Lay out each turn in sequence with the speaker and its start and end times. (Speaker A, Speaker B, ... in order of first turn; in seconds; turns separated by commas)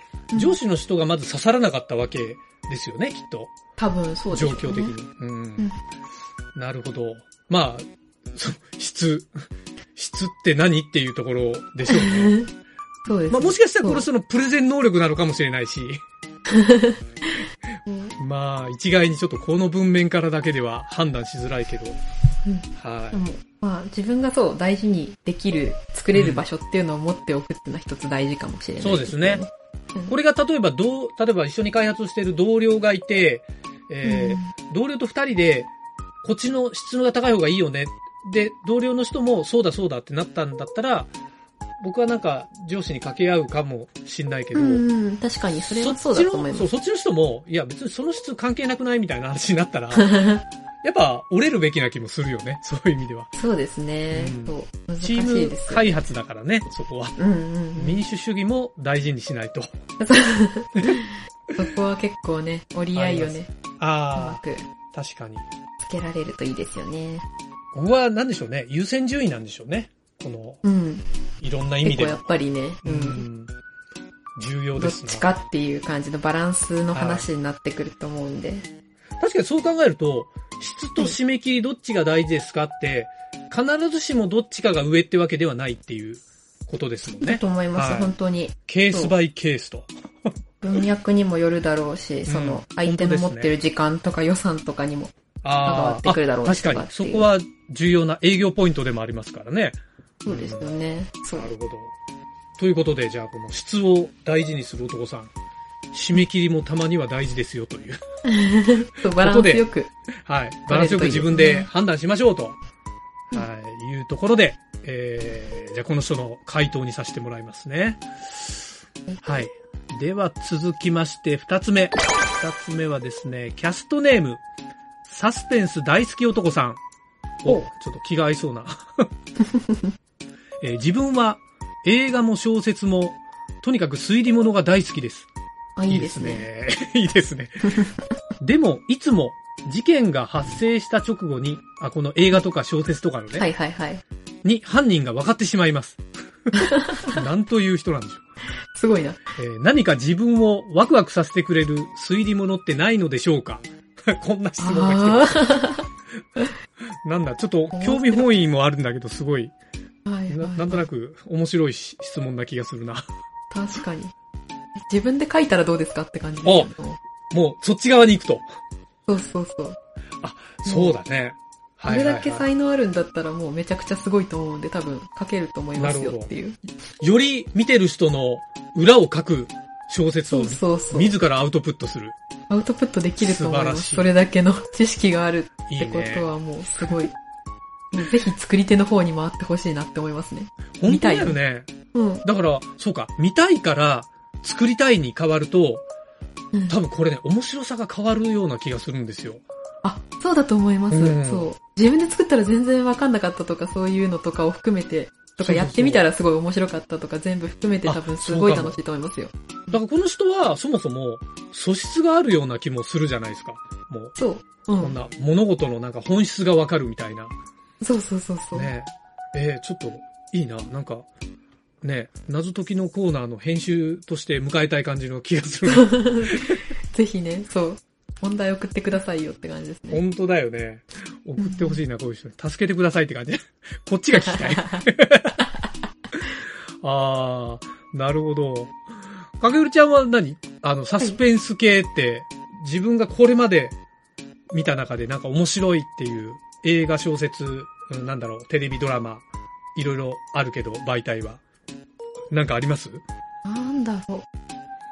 Speaker A: 0.3-0.6, Speaker B: 0.3-3.5, Speaker A: 3.8-4.9, Speaker B: 4.3-5.7, Speaker B: 6.5-9.3, Speaker B: 9.9-12.4, Speaker A: 11.8-12.5, Speaker A: 13.1-14.1, Speaker B: 13.3-16.0, Speaker A: 16.5-17.0, Speaker A: 17.9-18.1, Speaker B: 18.2-22.0, Speaker A: 22.4-30.1, Speaker B: 22.8-23.2, Speaker B: 26.1-26.4, Speaker B: 28.8-29.4, Speaker B: 30.1-35.7, Speaker A: 34.0-34.5, Speaker B: 36.2-41.1, Speaker B: 41.8-44.8, Speaker A: 44.5-46.7, Speaker B: 45.6-50.3, Speaker A: 49.9-50.4, Speaker B: 50.8-53.3, Speaker A: 53.3-56.0, Speaker B: 54.1-57.2, Speaker A: 57.2-58.0, Speaker B: 57.7-59.7, Speaker A: 60.0-63.5, Speaker B: 62.9-64.4, Speaker A: 64.1-64.7, Speaker B: 64.9-65.4, Speaker A: 65.8-67.2, Speaker B: 67.7-70.6, Speaker A: 70.6-71.0, Speaker B: 71.4-72.2, Speaker A: 71.8-73.2, Speaker B: 72.8-73.5, Speaker B: 74.4-75.3, Speaker A: 74.8-78.7, Speaker B: 76.9-77.2, Speaker B: 79.2-88.1, Speaker A: 87.2-89.1, Speaker B: 88.7-89.9, Speaker A: 90.6-97.3, Speaker B: 92.3-93.5, Speaker B: 95.4-100.7, Speaker A: 100.2-101.5, Speaker B: 101.3-101.9, Speaker B: 102.6-105.3, Speaker B: 105.9-108.0, Speaker A: 108.2-109.9, Speaker B: 109.2-109.7, Speaker B: 110.2-112.6, Speaker A: 110.7-111.7, Speaker B: 113.3-118.6, Speaker B: 119.2-124.4, Speaker B: 125.0-126.8, Speaker B: 127.4-129.1, Speaker A: 129.4-129.8, Speaker B: 130.6-135.3, Speaker A: 135.8-136.4, Speaker B: 135.9-137.8, Speaker B: 138.4-143.5, Speaker A: 143.3-144.0, Speaker B: 144.4-148.2, Speaker A: 146.5-147.2, Speaker A: 148.7-149.2, Speaker B: 149.3-155.5, Speaker A: 154.6-155.9, Speaker B: 157.0-159.5, Speaker A: 157.7-158.2, Speaker A: 160.0-160.8, Speaker B: 160.3-163.0, Speaker A: 163.5-164.1, Speaker A: 164.8-167.0, Speaker B: 166.4-166.7, Speaker B: 167.3-168.5, Speaker A: 169.1-169.8, Speaker B: 170.2-172.5, Speaker A: 170.6-171.0, Speaker A: 171.8-176.6, Speaker B: 175.8-176.3, Speaker B: 177.0-182.2, Speaker A: 180.3-181.1, Speaker A: 182.5-187.1, Speaker B: 183.2-184.1, Speaker B: 185.7-186.3, Speaker B: 186.8-187.1, Speaker A: 187.9-191.4, Speaker B: 190.8-191.7, Speaker A: 191.9-192.2, Speaker B: 192.2-195.8, Speaker A: 196.5-196.8, Speaker B: 196.7-199.4, Speaker A: 199.8-209.7, Speaker B: 200.9-201.5, Speaker B: 205.3-206.1, Speaker B: 207.8-208.8, Speaker B: 209.7-214.2, Speaker A: 214.2-214.9, Speaker B: 214.8-217.3, Speaker A: 217.8-218.7, Speaker B: 218.5-221.1, Speaker B: 221.8-226.6, Speaker A: 225.7-230.0, Speaker B: 229.9-235.5, Speaker A: 231.4-231.8, Speaker A: 234.2-234.8, Speaker B: 236.8-238.8, Speaker B: 239.4-243.8, Speaker B: 244.5-251.4, Speaker B: 252.3-253.0, Speaker A: 253.4-254.3